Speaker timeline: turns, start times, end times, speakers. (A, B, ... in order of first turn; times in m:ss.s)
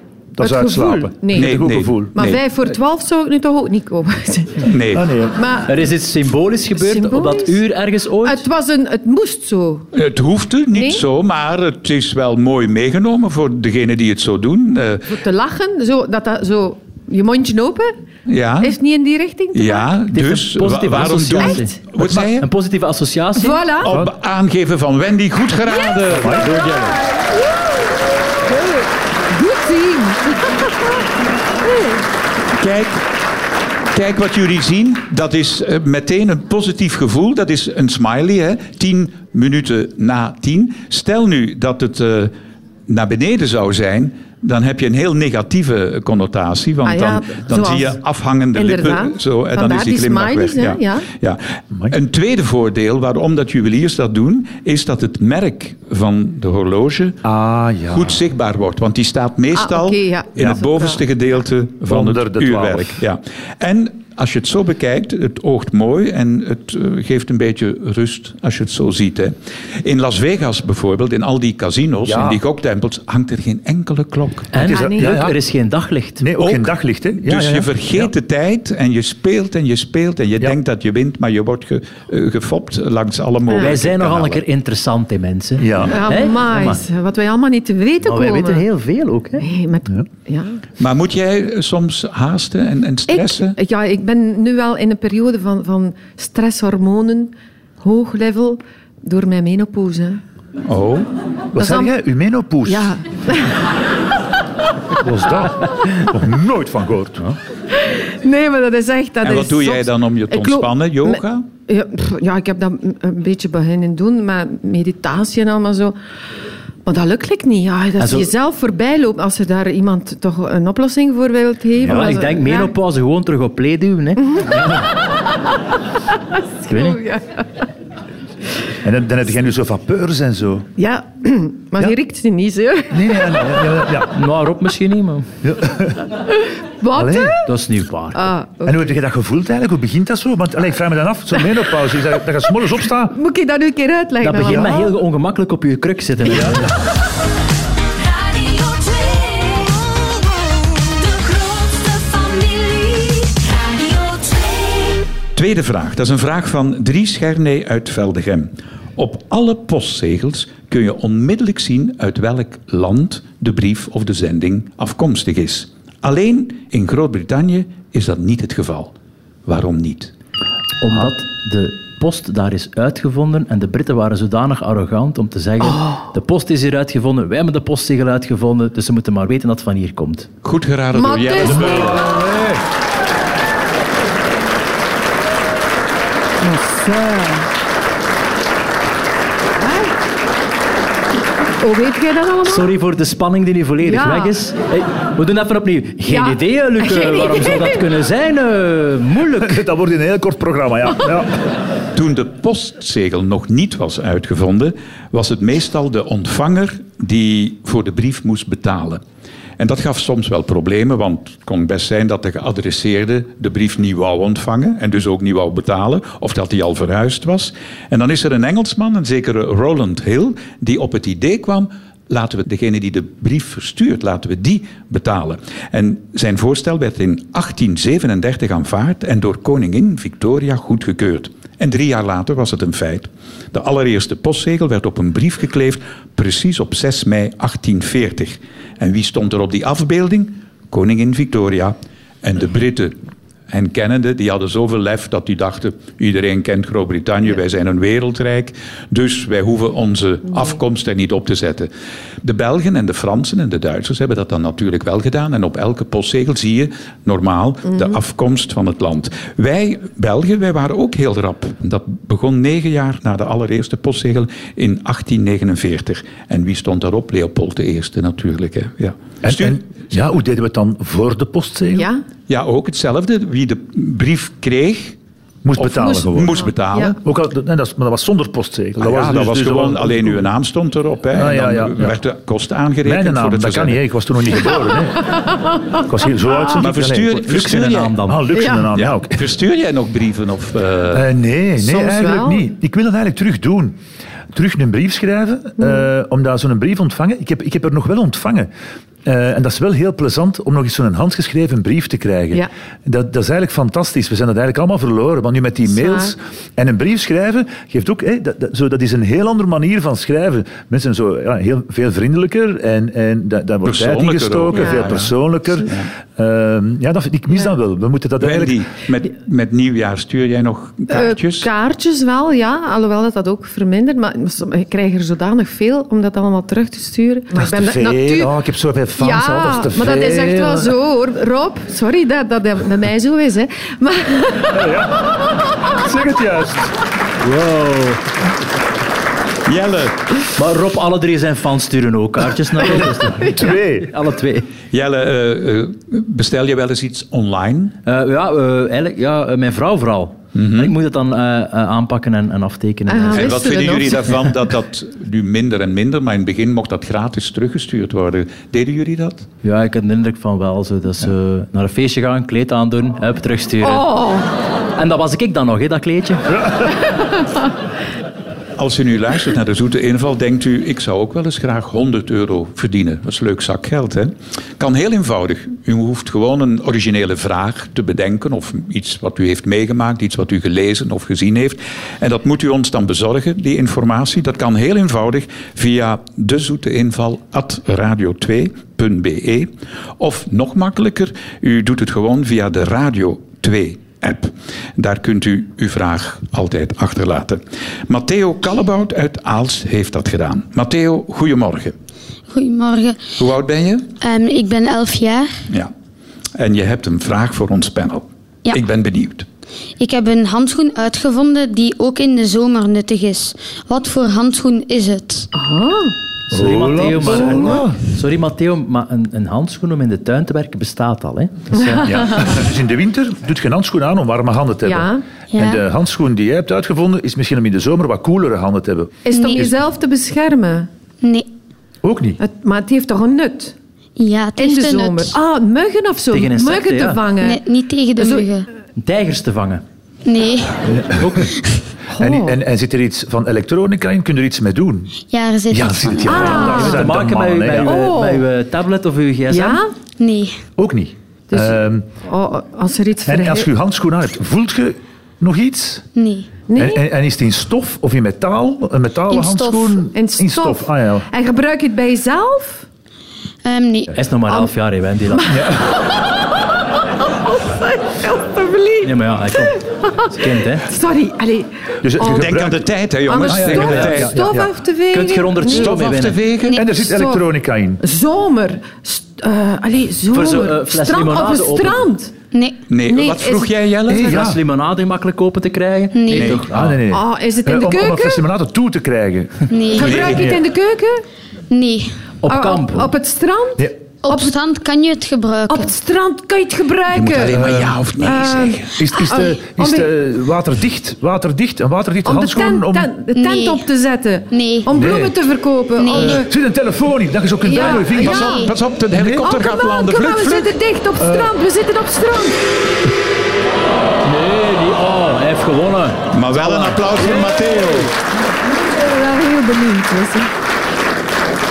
0:00.3-0:02.2 A
0:00.4-0:01.5 B
0:01.3-0:02.4 C
0:02.1-0:04.8 B
0:04.6-0:05.1 C
0:04.9-0:05.4 A
0:05.3-0:05.9 B
0:05.7-0:08.4 D
0:06.8-0:07.6 B
0:08.2-0:09.9 B
0:09.9-0:15.1 C
0:10.7-0:11.0 B
0:15.0-0:17.9 B
0:18.3-0:18.8 C
0:18.6-0:19.9 B
0:19.5-0:22.5 C
0:20.1-0:23.6 D
0:21.4-0:21.8 B
0:22.0-0:22.3 A
0:23.4-0:23.9 B
0:23.8-0:26.6 C
0:23.9-0:24.1 A
0:26.1-0:27.0 A
0:26.6-0:27.4 B
0:28.5-0:28.8 B
0:29.3-0:30.9 B
0:31.6-0:32.0 B
0:32.6-0:33.0 C
0:33.9-0:42.3 C
0:42.9-0:57.2 C
0:46.8-0:48.0 B
0:48.5-0:51.1 B
0:51.7-0:52.0 A
0:57.2-0:58.3 A
0:57.9-1:14.5 C
0:59.5-1:01.0 B
1:01.9-1:03.0 A
1:12.0-1:12.4 A
1:14.5-1:16.2 D
1:14.5-1:15.4 A
1:14.6-1:15.1 B
1:16.2-1:18.1 A
1:16.4-1:24.4 C
1:23.5-1:23.7 B
1:23.6-1:26.8 D
1:25.6-1:26.0 A
1:25.9-1:28.6 B
1:28.0-1:29.4 D
1:29.4-1:30.6 B
1:30.8-1:33.6 C
1:33.1-1:40.2 B
1:40.6-1:41.1 C
1:41.5-1:42.9 A
1:41.6-1:41.9 B
1:42.6-1:43.6 B
1:45.0-1:47.4 A
1:47.8-1:56.0 B
1:49.2-1:51.4 C
1:56.8-2:02.7 B
1:58.0-1:58.3 D
2:01.8-2:04.7 D
2:04.3-2:04.8 B
2:06.6-2:07.5 B
2:06.7-2:07.0 D
2:08.8-2:10.7 A
2:10.8-2:13.6 B
2:12.9-2:14.2 A
2:14.1-2:15.3 D
2:15.4-2:16.0 A
2:16.3-2:17.5 B
2:16.9-2:17.3 A
2:17.4-2:18.3 D
2:18.1-2:19.0 B
2:18.6-2:23.1 A
2:23.1-2:24.9 B
2:24.2-2:26.7 D
2:28.1-2:30.0 E
2:30.9-2:35.0 E
2:35.3-2:48.9 C
2:49.4-2:50.1 C
2:50.8-3:00.3 D
2:55.6-2:56.0 B
3:00.4-3:02.3 C
3:00.9-3:02.2 B
3:01.4-3:02.4 A
3:06.4-3:07.5 B
3:09.6-3:09.9 B
3:11.6-3:12.7 B
3:12.4-3:19.6 D
3:13.8-3:14.3 B
3:16.0-3:17.8 B
3:19.4-3:21.5 A
3:21.9-3:29.0 C
3:29.6-4:03.0 C
4:03.5-4:11.7 C
4:12.2-4:29.6 C
4:29.2-4:31.9 A
4:31.8-4:32.0 B
4:32.3-4:35.0 C
4:35.4-4:36.4 A
4:35.6-4:37.0 C
4:35.8-4:37.0 B
4:37.0-4:40.3 A
4:38.8-4:43.8 C
4:41.1-4:42.0 A
4:42.8-4:45.2 A
4:45.8-4:49.3 A
4:46.5-4:48.0 C
4:47.2-4:48.2 D
4:48.3-4:48.7 B
4:48.7-4:51.0 C
4:50.9-4:53.8 A
4:51.6-4:52.4 B
4:54.3-4:58.5 A
4:59.0-5:18.6 A
5:05.7-5:06.1 B
5:13.6-5:15.1 C
5:14.5-5:14.9 B
5:18.2-5:21.5 C
5:20.9-5:28.3 B
5:27.3-5:30.7 A
5:29.0-5:35.2 B
5:34.5-5:35.1 A
5:35.7-5:36.7 A
5:37.2-5:38.0 D
5:39.4-5:40.0 C
5:40.4-5:44.5 D
5:42.6-5:43.9 A
5:44.7-5:47.8 C
5:47.8-5:53.4 D
5:50.3-5:50.7 C
5:52.9-5:54.2 B
5:53.1-5:59.2 C
5:59.4-6:03.9 D
6:03.6-6:04.3 B
6:04.8-6:06.5 D
6:08.6-6:41.7 C
6:42.3-6:43.2 F
6:43.2-6:43.9 C
6:44.0-6:45.4 F
6:46.4-6:49.2 C
6:49.8-6:55.3 F
6:55.3-6:55.9 B
6:56.3-6:57.8 A
6:56.3-7:01.9 D
7:01.5-7:02.3 B
7:01.8-7:09.5 A
7:04.6-7:05.0 B
7:05.3-7:05.6 F
7:09.0-7:10.7 B
7:09.1-7:09.5 F
7:11.8-7:12.2 A
7:12.2-7:13.5 B
7:14.0-7:15.1 F
7:14.4-7:17.4 B
7:16.1-7:17.0 D
7:17.2-7:18.5 F
7:18.8-7:19.6 D
7:20.0-7:20.6 F
7:20.7-7:21.3 A
7:21.0-7:21.3 D
7:22.0-7:24.9 A
7:22.0-7:22.4 B
7:25.1-7:26.4 F
7:25.5-7:27.8 A
7:26.0-7:26.8 B
7:26.1-7:29.6 D
7:27.6-7:28.2 B
7:29.3-7:29.7 B
7:30.0-7:30.4 F
7:30.6-7:31.8 A
7:31.3-7:33.5 B
7:33.0-7:35.8 A
7:36.0-7:36.3 F
7:36.5-7:36.8 B
7:36.6-7:41.1 A
7:39.1-7:39.8 F
7:39.9-7:42.6 B
7:43.4-7:44.0 F
7:44.0-7:45.4 D
7:45.1-7:46.3 B
7:45.3-7:45.7 A
7:47.0-7:52.4 B
7:48.8-7:50.6 D
7:51.8-7:54.5 A
7:52.0-7:54.3 C
7:53.0-7:55.7 B
7:53.6-7:53.9 D
7:54.9-7:56.2 D
7:55.4-7:56.6 C
7:56.5-7:57.8 A
7:56.7-7:57.2 B
7:57.8-8:02.1 B
8:00.1-8:01.8 D
8:02.3-8:02.6 F
8:02.7-8:04.3 C
8:02.8-8:03.5 B
8:03.9-8:04.4 A
8:04.0-8:06.8 D
8:05.9-8:06.4 F
8:06.1-8:06.5 C
8:06.5-8:09.4 A
8:06.9-8:08.3 B
8:09.5-8:10.1 F
8:09.7-8:11.0 B
8:09.8-8:10.4 C
8:11.5-8:12.0 F
8:12.2-8:12.9 D
8:12.3-8:14.3 B
8:14.0-8:15.7 F
8:15.5-8:17.3 B
8:16.9-8:18.7 C
8:17.2-8:17.8 A
8:18.0-8:19.9 B
8:18.7-8:22.9 A
8:22.0-8:26.3 B
8:23.1-8:23.6 F
8:24.3-8:24.7 F
8:24.7-8:25.1 A
8:25.8-8:26.2 F
8:26.0-8:28.4 A
8:27.4-8:28.5 B
8:27.6-8:28.5 F
8:28.0-8:30.5 C
8:28.9-8:29.3 A
8:29.2-8:32.4 B
8:31.0-8:31.3 A
8:34.0-8:37.8 D
8:36.1-8:37.9 C
8:38.7-8:40.3 B